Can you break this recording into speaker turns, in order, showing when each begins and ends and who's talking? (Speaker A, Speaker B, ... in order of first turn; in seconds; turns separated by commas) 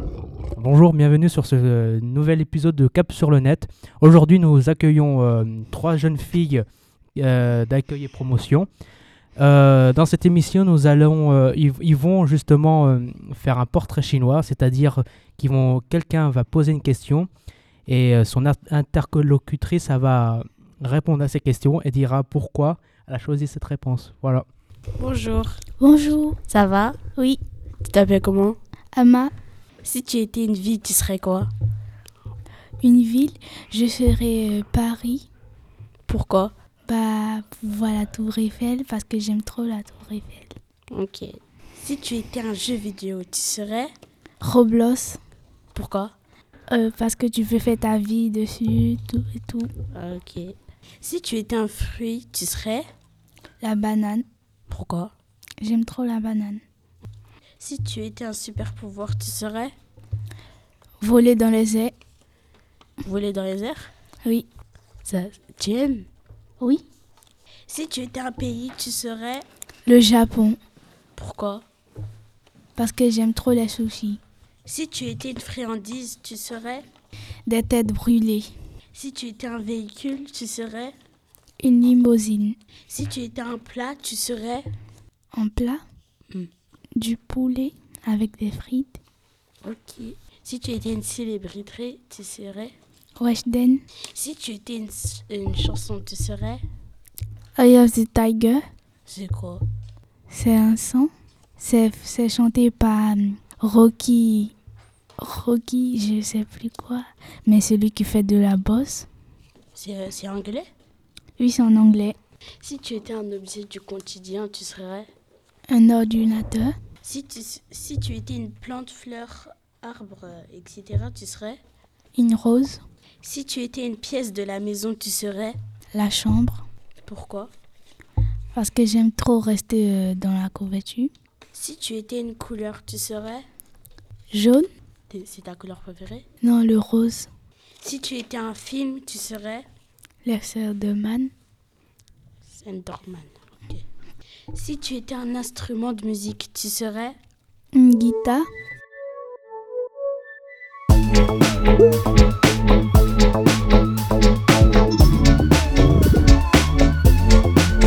Speaker A: 0.6-6.6, Speaker A: 7.2-8.7, Speaker A: 9.4-17.3, Speaker A: 17.9-24.5, Speaker B: 25.0-25.6, Speaker C: 25.8-26.4, Speaker B: 26.5-27.0, Speaker B: 27.9-28.6, Speaker C: 28.9-29.3, Speaker B: 29.8-31.5, Speaker C: 32.8-35.3, Speaker B: 36.1-36.5, Speaker C: 36.9-40.5, Speaker B: 40.9-43.9, Speaker C: 44.4-45.2, Speaker B: 45.8-46.1, Speaker C: 46.7-49.7, Speaker B: 49.9-52.9, Speaker C: 53.6-54.2, Speaker B: 54.7-55.1, Speaker C: 55.6-56.6, Speaker B: 57.6-59.7, Speaker C: 61.0-61.9, Speaker B: 63.0-63.9, Speaker B: 65.0-66.1, Speaker B: 67.7-69.5, Speaker C: 69.9-70.6, Speaker B: 71.2-71.6, Speaker C: 72.8-74.2, Speaker B: 74.7-76.8, Speaker C: 77.5-78.5, Speaker B: 79.0-80.9, Speaker C: 81.6-82.6, Speaker B: 82.9-84.7, Speaker C: 85.3-85.8, Speaker C: 87.0-89.0, Speaker B: 89.6-92.7, Speaker C: 93.2-93.8, Speaker B: 94.2-96.6, Speaker C: 97.6-98.6, Speaker B: 99.1-99.6, Speaker C: 100.3-104.5, Speaker C: 105.2-109.1, Speaker B: 109.8-110.7, Speaker C: 111.4-112.2, Speaker B: 112.6-115.1, Speaker C: 115.7-116.7, Speaker B: 117.0-121.6, Speaker C: 122.2-122.8, Speaker B: 123.2-125.6, Speaker C: 125.9-126.6, Speaker B: 127.1-127.5, Speaker C: 128.5-131.1, Speaker B: 131.5-133.4, Speaker C: 134.3-134.7, Speaker B: 135.1-136.2, Speaker C: 136.4-137.3, Speaker B: 137.8-139.7, Speaker C: 140.2-141.3, Speaker B: 142.5-143.8, Speaker B: 144.5-147.2, Speaker C: 147.7-148.5